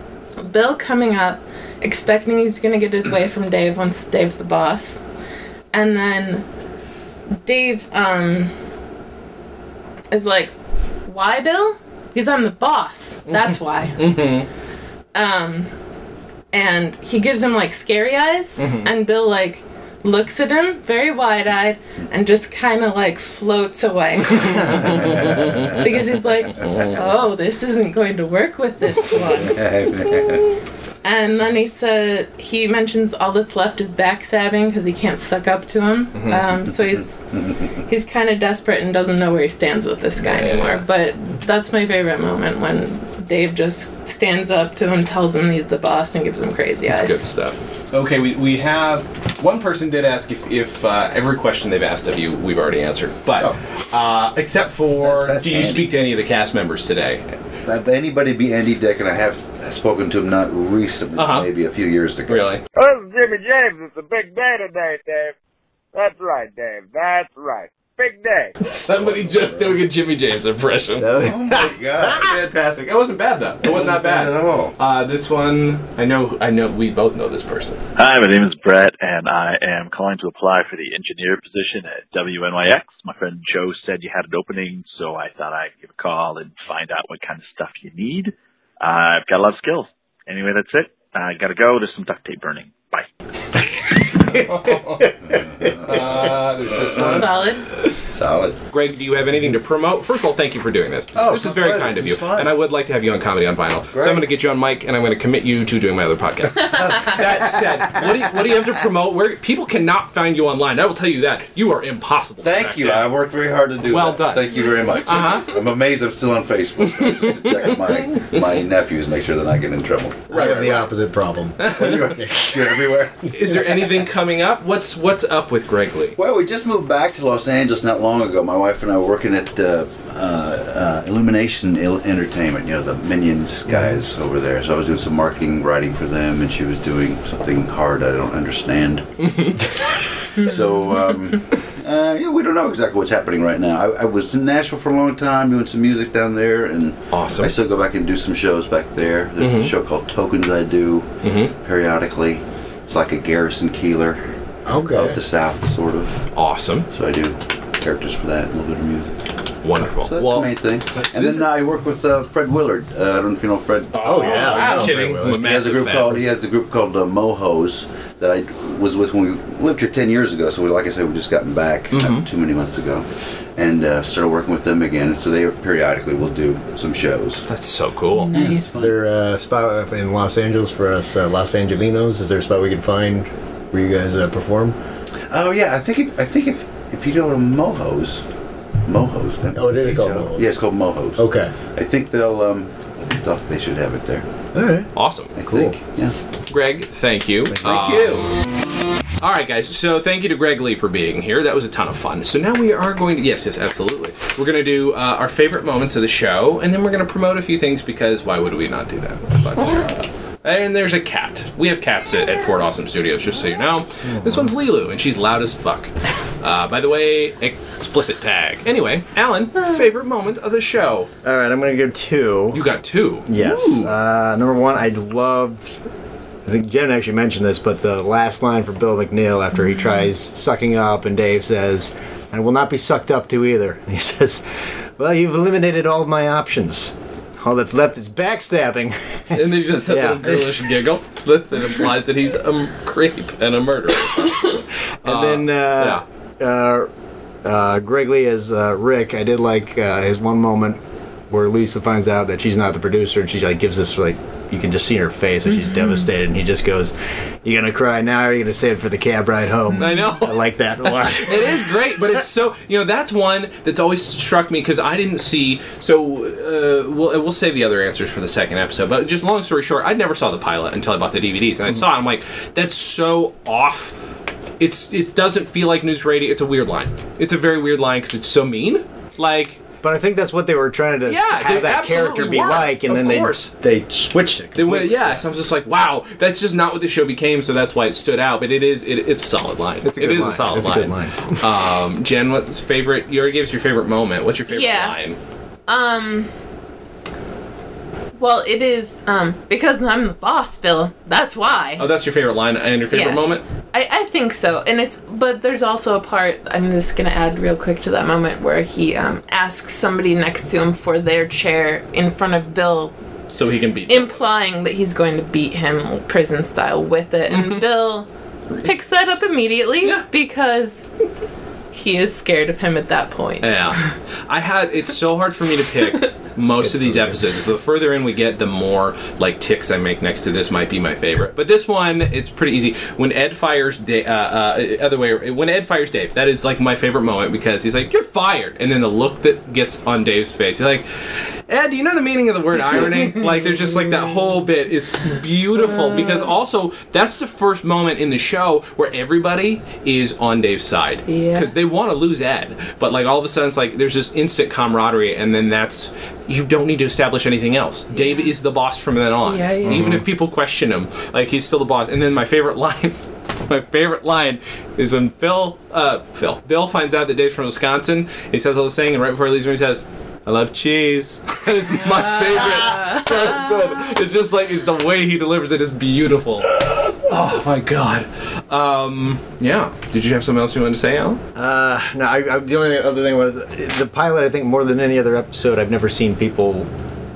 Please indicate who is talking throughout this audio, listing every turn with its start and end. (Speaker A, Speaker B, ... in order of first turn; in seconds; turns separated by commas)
Speaker A: 0.4-5.0, Speaker A: 5.7-6.4, Speaker A: 7.4-8.5, Speaker A: 10.1-10.5, Speaker A: 11.1-14.3, Speaker B: 13.3-14.5, Speaker A: 15.1-15.7, Speaker A: 16.5-29.6, Speaker B: 18.6-18.9, Speaker B: 24.4-25.8, Speaker C: 24.8-25.8, Speaker B: 26.6-27.0, Speaker C: 29.1-30.5, Speaker A: 31.0-47.2, Speaker B: 36.1-36.4, Speaker B: 40.2-40.8, Speaker B: 46.9-57.3, Speaker C: 55.0-55.9, Speaker C: 57.6-62.5, Speaker B: 61.1-61.5, Speaker B: 62.3-62.6, Speaker D: 62.7-65.3, Speaker D: 65.9-68.5, Speaker B: 68.6-77.8, Speaker C: 68.9-69.8, Speaker E: 71.0-71.7, Speaker C: 71.1-72.3, Speaker C: 73.6-74.7, Speaker F: 78.0-93.1, Speaker E: 94.1-95.1, Speaker B: 94.2-95.1, Speaker C: 95.2-97.2, Speaker B: 95.8-97.4, Speaker A: 97.0-97.7, Speaker C: 98.0-98.6, Speaker B: 98.7-113.1, Speaker C: 101.1-102.5, Speaker C: 103.9-104.2, Speaker C: 112.4-120.8, Speaker B: 113.8-115.5, Speaker B: 117.2-117.5, Speaker B: 120.3-120.9, Speaker E: 120.3-123.6, Speaker B: 121.6-122.0, Speaker C: 121.6-123.3, Speaker B: 123.3-126.2, Speaker C: 126.2-154.2, Speaker E: 133.7-134.0, Speaker B: 139.2-139.8, Speaker B: 147.1-147.5, Speaker B: 149.4-149.7, Speaker B: 151.2-151.5, Speaker E: 154.7-155.2, Speaker C: 154.9-156.2, Speaker B: 156.3-156.9, Speaker C: 156.9-159.3, Speaker B: 159.6-160.5, Speaker C: 159.8-177.5, Speaker E: 161.0-161.4, Speaker B: 163.9-166.2, Speaker E: 164.0-165.5, Speaker B: 171.9-172.2, Speaker B: 177.5-178.3, Speaker A: 178.1-178.7, Speaker C: 178.3-178.9, Speaker E: 178.6-184.8, Speaker C: 185.3-188.2, Speaker C: 188.8-194.2, Speaker E: 189.5-190.5, Speaker E: 191.2-191.5, Speaker E: 194.5-195.8, Speaker B: 194.9-195.3, Speaker C: 195.3-196.1, Speaker B: 196.5-198.3, Speaker C: 197.5-198.2, Speaker B: 199.2-221.1, Speaker E: 214.0-214.5, Speaker E: 221.2-222.6, Speaker B: 222.5-223.9, Speaker E: 223.2-225.8, Speaker E: 226.4-234.4, Speaker E: 235.0-240.7, Speaker B: 239.3-246.0, Speaker E: 245.0-246.9, Speaker E: 247.4-262.2, Speaker B: 259.8-273.9, Speaker B: 274.6-279.6, Speaker E: 279.8-285.2, Speaker B: 281.1-283.5, Speaker B: 284.5-295.2, Speaker E: 289.8-291.5, Speaker A: 294.5-294.9, Speaker A: 295.7-296.3, Speaker A: 298.2-301.9, Speaker B: 301.8-303.4, Speaker A: 302.9-312.9, Speaker B: 313.3-314.2, Speaker A: 313.9-318.1, Speaker B: 317.3-317.6, Speaker A: 318.6-320.9, Speaker A: 321.7-323.7, Speaker B: 323.4-381.2, Speaker E: 326.6-327.2, Speaker A: 345.8-346.2, Speaker A: 351.1-351.5, Speaker A: 357.9-358.3, Speaker A: 359.2-359.9, Speaker E: 359.6-360.0, Speaker A: 372.5-373.3, Speaker E: 381.4-386.7